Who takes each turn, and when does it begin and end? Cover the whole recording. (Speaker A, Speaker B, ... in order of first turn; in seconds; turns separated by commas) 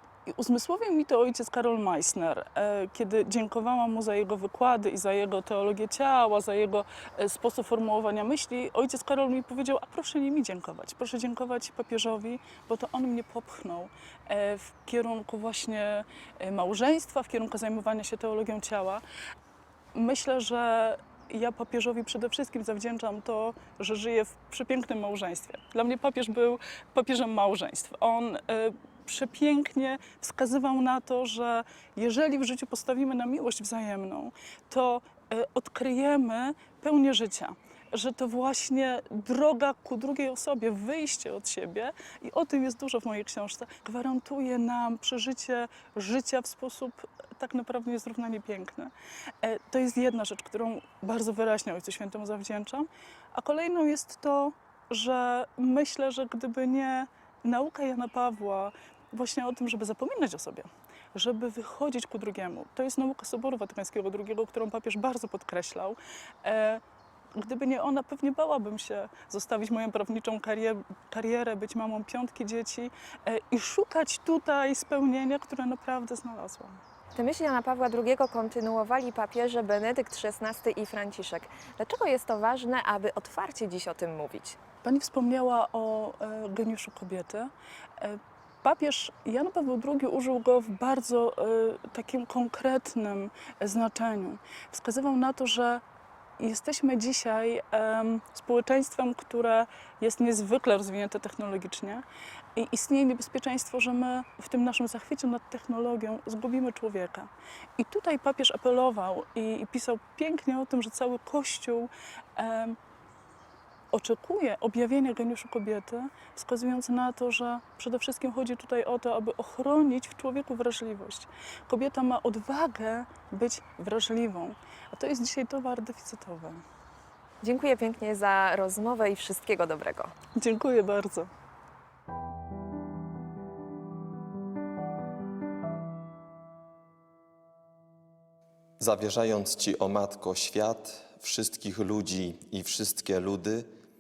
Speaker A: 0.3-19.0, Speaker A: 19.9-66.8, Speaker A: 67.4-76.8, Speaker B: 77.2-84.6, Speaker A: 84.8-95.8, Speaker A: 96.4-102.0, Speaker A: 102.6-112.8, Speaker A: 113.9-126.6, Speaker B: 127.4-130.1, Speaker A: 130.4-131.3, Speaker C: 138.8-143.7